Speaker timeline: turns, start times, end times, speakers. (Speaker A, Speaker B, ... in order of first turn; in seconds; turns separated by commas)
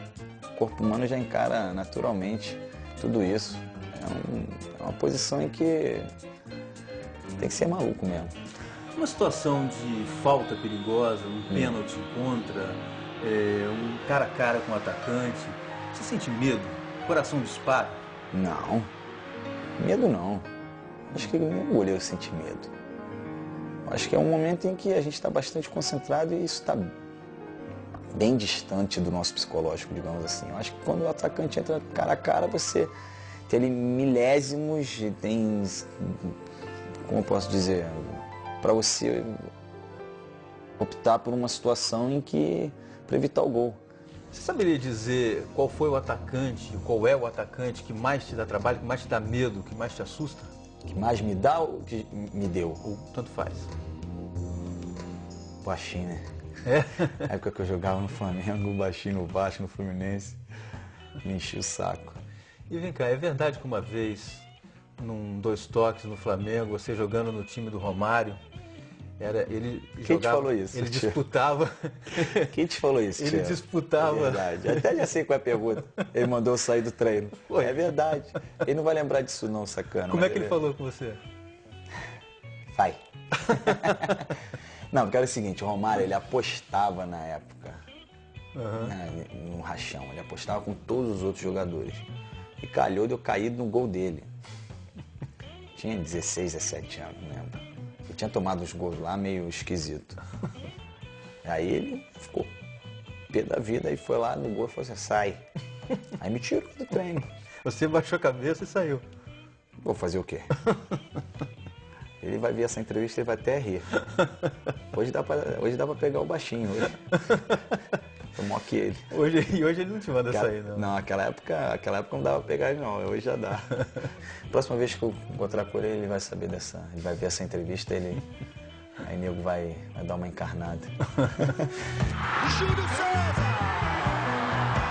Speaker A: 0.5-6.1, Speaker A: 7.4-8.3, Speaker B: 8.9-18.0, Speaker A: 11.5-11.8, Speaker A: 18.3-18.9, Speaker A: 19.8-20.5, Speaker A: 21.1-22.7, Speaker A: 23.9-26.9, Speaker A: 28.1-32.9, Speaker A: 33.5-36.3, Speaker A: 37.0-39.5, Speaker A: 40.8-43.8, Speaker B: 44.3-50.5, Speaker A: 50.9-52.8, Speaker B: 52.8-53.7, Speaker A: 55.6-56.2, Speaker B: 56.6-57.3, Speaker A: 57.2-60.4, Speaker A: 61.2-62.2, Speaker B: 62.7-64.5, Speaker B: 65.0-68.4, Speaker B: 69.2-72.5, Speaker A: 70.0-71.2, Speaker A: 72.5-80.6, Speaker B: 73.2-74.9, Speaker B: 77.4-78.0, Speaker B: 80.1-81.2, Speaker A: 82.7-83.0, Speaker B: 83.4-84.2, Speaker A: 83.6-84.3, Speaker A: 84.9-87.8, Speaker B: 88.5-88.9, Speaker A: 88.8-92.1, Speaker A: 92.6-94.3, Speaker A: 95.8-100.2, Speaker A: 101.4-102.5, Speaker A: 103.3-105.4, Speaker A: 106.2-107.3, Speaker B: 107.6-109.0, Speaker A: 109.8-110.5, Speaker A: 112.2-114.0, Speaker A: 114.9-117.0, Speaker B: 117.1-117.8, Speaker A: 118.3-119.0, Speaker B: 119.1-120.9, Speaker A: 120.3-123.8, Speaker A: 124.5-128.2, Speaker A: 129.0-131.8, Speaker C: 132.4-134.3